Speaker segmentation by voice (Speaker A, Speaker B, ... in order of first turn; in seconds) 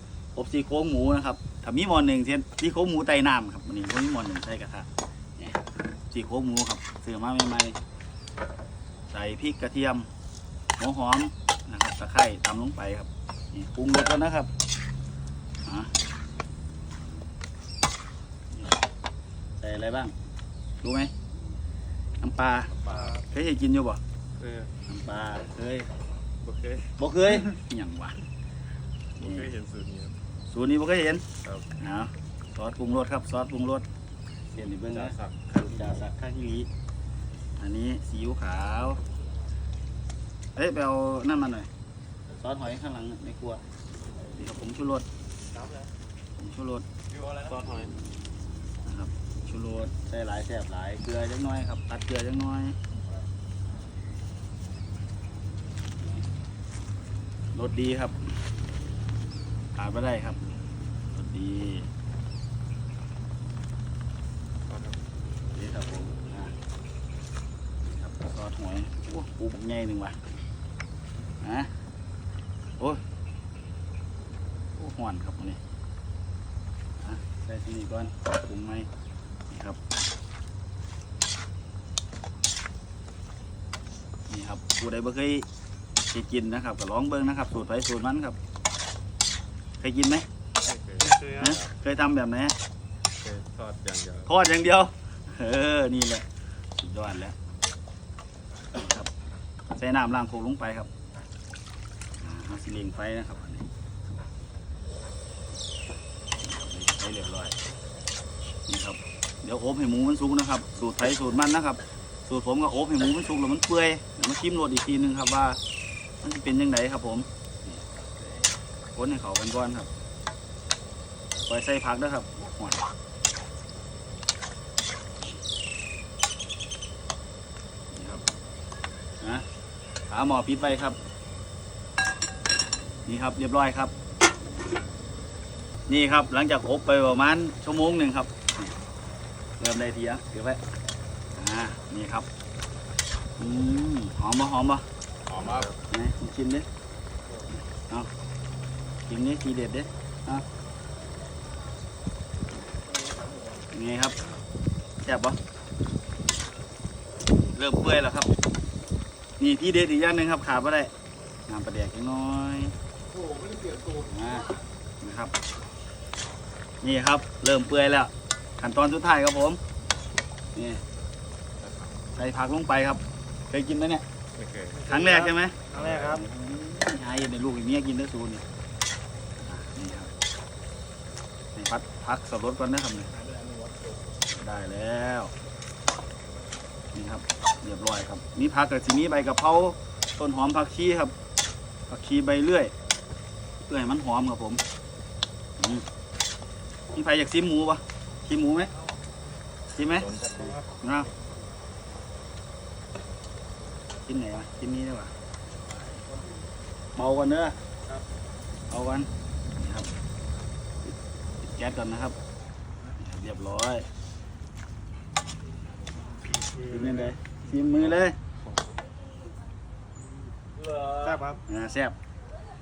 Speaker A: 0.3-7.8, 9.1-10.1, 10.8-14.5, 15.6-15.9, 18.5-18.8, 19.6-20.1, 20.8-21.1, 22.2-22.7, 23.2-24.0, 24.9-25.9, 27.0-28.1, 29.2-29.4, 30.5-31.2, 31.8-33.8, 34.5-36.7, 37.6-39.0, 40.5-41.7, 42.3-43.6, 44.3-45.0, 46.4-46.8, 48.8-52.8, 57.5-58.4, 59.7-60.4, 61.1-61.9, 65.5-66.5, 67.8-70.2, 71.4-71.7, 74.8-75.6, 77.0-78.9, 79.5-79.8, 84.3-85.5, 86.1-88.4, 89.8-90.2, 91.3-92.5, 94.3-96.2, 96.8-97.3, 98.7-99.1, 99.7-100.9, 102.2-103.7, 106.4-107.5, 108.7-115.6, 116.2-117.8, 118.9-119.9, 121.5-122.8, 127.9-128.2, 129.2-129.4, 130.1-131.0, 133.1-133.9, 135.9-138.7, 139.6-140.6, 141.3-142.3, 143.4-144.8, 145.9-146.7, 149.1-150.4, 153.7-154.2, 155.0-155.4, 157.5-158.3, 159.4-160.9, 161.5-162.7, 164.0-165.3, 166.8-169.6, 170.5-170.8, 172.1-174.0, 174.8-178.4, 179.4-180.1, 181.5-183.1, 184.3-185.3, 186.9-191.1, 191.9-192.7, 193.6-194.6, 195.6-195.8, 196.9-198.7, 199.7-200.2, 200.8-201.1, 204.1-205.1, 206.9-207.6, 208.7-209.9, 210.9-212.2, 213.0-213.9, 216.6-218.2, 221.5-221.9
Speaker B: 22.7-23.2, 24.4-24.7, 26.4-26.9, 29.2-30.1, 31.4-31.7, 34.9-35.4, 47.3-47.9, 64.7-65.0, 90.6-91.7, 93.2-94.3, 145.3-145.8, 171.6-172.1, 174.3-174.9, 200.0-200.6
Speaker C: 45.5-45.8, 91.1-91.4, 163.5-163.7, 174.8-176.2, 216.6-217.1, 220.6-221.4